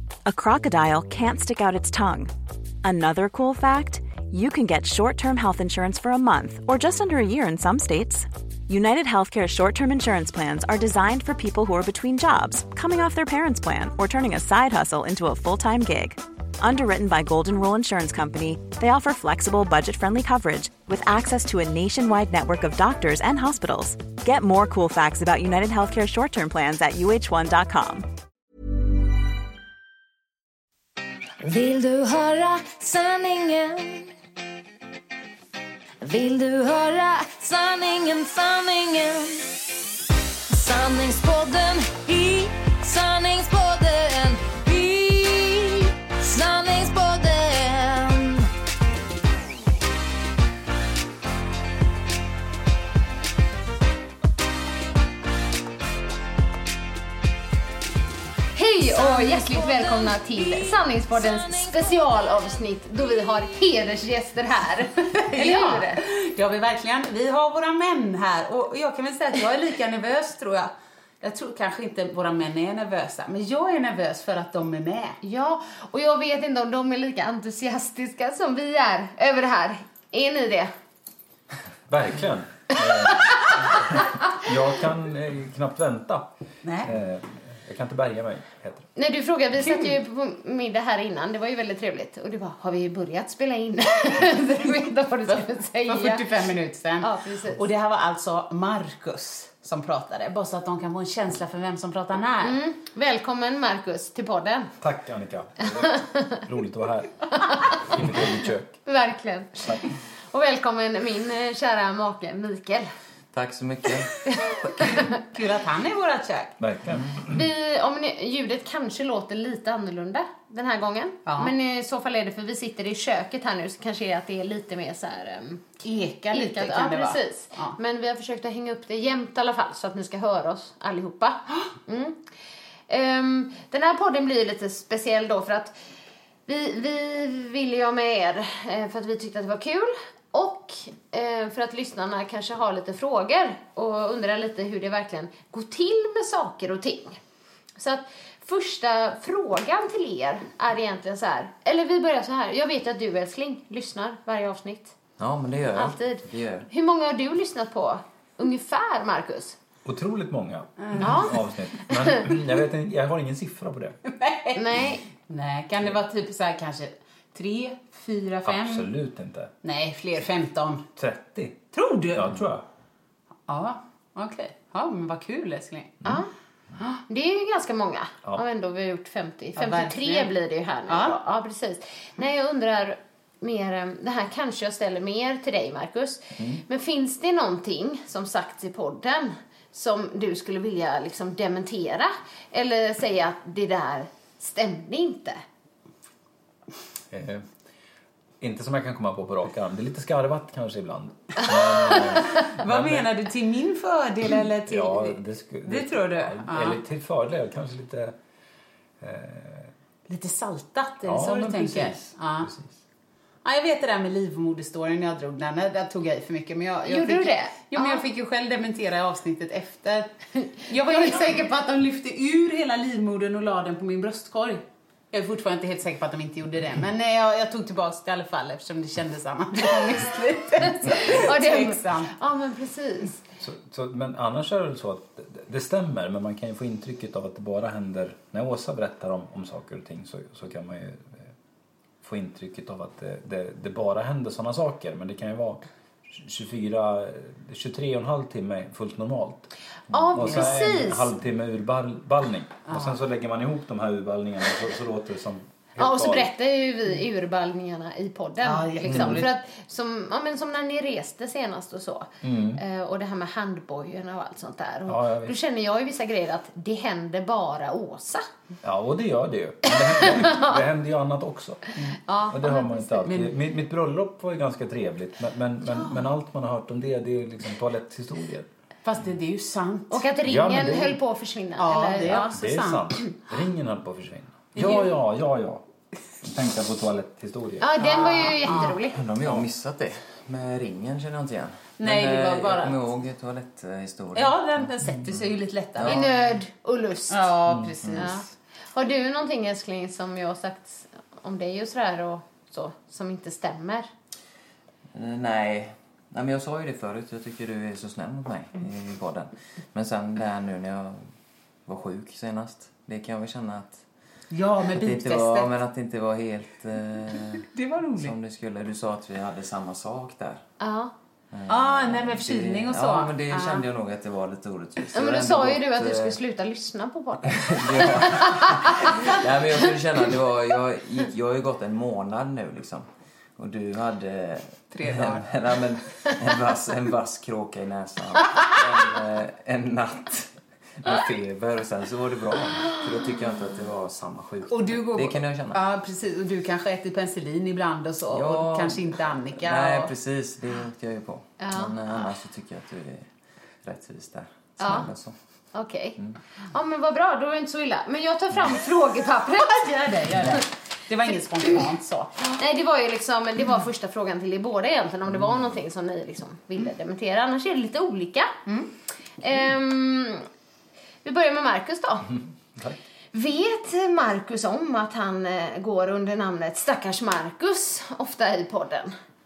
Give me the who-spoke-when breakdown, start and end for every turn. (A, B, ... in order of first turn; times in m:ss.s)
0:00.2-0:02.3 A
0:02.8-0:28.1 A
0:31.4-0:34.1 B
0:36.0-0:39.5 B
0:40.5-0:48.5 B
0:58.5-1:06.0 C
0:59.0-1:00.8 B
1:05.2-1:15.2 D
1:15.2-1:20.7 C
1:21.9-1:26.3 E
1:23.0-1:23.5 C
1:26.6-1:26.9 D
1:26.8-1:28.9 E
1:29.0-1:36.3 C
1:35.9-1:42.6 D
1:37.0-1:37.6 C
1:42.4-1:44.7 C
1:44.8-1:47.1 E
1:46.0-1:46.4 C
1:47.4-1:47.7 C
1:47.7-1:48.8 E
1:48.8-1:52.9 C
1:53.3-1:54.3 F
1:54.2-1:55.2 C
1:54.9-1:56.6 D
1:56.6-1:57.4 E
1:57.2-2:05.7 C
2:01.2-2:01.5 D
2:05.8-2:07.8 D
2:06.3-2:12.2 C
2:12.9-2:15.8 C
2:16.5-2:27.2 C
2:27.8-2:34.9 C
2:35.2-2:36.7 F
2:35.8-2:39.6 C
2:39.8-2:44.0 E
2:41.0-2:42.2 C
2:44.0-2:44.6 D
2:44.5-2:45.0 C
2:45.2-2:48.9 D
2:48.4-2:49.5 E
2:49.6-2:50.9 D
2:51.0-2:52.6 E
2:51.7-2:52.4 D
2:53.5-2:56.0 D
2:57.1-3:15.4 C
2:59.6-3:00.3 D
3:00.9-3:01.2 D
3:06.4-3:06.6 E
3:17.1-3:17.5 E
3:18.4-3:23.1 E
3:22.4-3:26.8 D
3:24.7-3:28.1 E
3:29.0-3:29.7 E
3:30.1-3:32.5 D
3:31.0-3:32.8 E
3:33.4-3:52.1 D
3:36.8-3:38.0 C
3:50.8-3:53.2 C
3:53.4-4:01.3 E
4:02.0-4:16.3 E
4:09.9-4:11.1 C
4:10.2-4:10.7 D
4:12.7-4:13.0 D
4:15.8-4:28.2 C
4:18.4-4:19.3 D
4:18.9-4:19.2 E
4:22.2-4:22.6 E
4:24.9-4:25.3 E
4:28.6-4:38.5 E
4:29.7-4:30.6 C
4:32.0-4:33.1 C
4:33.1-4:33.3 D
4:38.8-4:40.0 D
4:39.9-4:42.3 C
4:40.2-4:41.0 E
4:41.6-4:43.0 D
4:42.0-4:45.6 E
4:44.5-4:44.9 D
4:46.2-4:47.7 E
4:47.6-4:49.0 C
4:47.8-4:48.8 D
4:48.9-4:54.4 F
4:49.2-4:49.5 E
4:51.8-4:52.9 D
4:54.1-4:56.2 D
4:55.8-4:57.3 C
4:57.1-4:58.2 D
4:57.4-4:58.2 E
4:58.0-5:03.9 C
5:04.9-5:11.0 F
5:11.7-5:13.8 F
5:14.3-5:15.6 D
5:14.7-5:20.4 F
5:17.4-5:18.1 D
5:20.6-5:20.9 C
5:21.3-5:26.2 F
5:21.5-5:23.6 D
5:24.9-5:28.9 C
5:27.3-5:32.9 F
5:33.4-5:45.6 F
5:34.7-5:35.3 D
5:44.5-5:49.9 D
5:48.1-5:53.1 F
5:51.4-5:51.8 C
5:53.6-5:55.1 F
5:54.6-5:54.9 C
5:55.5-5:56.0 C
5:56.5-6:00.4 C
5:59.3-6:02.2 D
6:02.2-6:08.3 C
6:09.2-6:10.3 C
6:11.0-6:12.1 C
6:13.1-6:18.9 C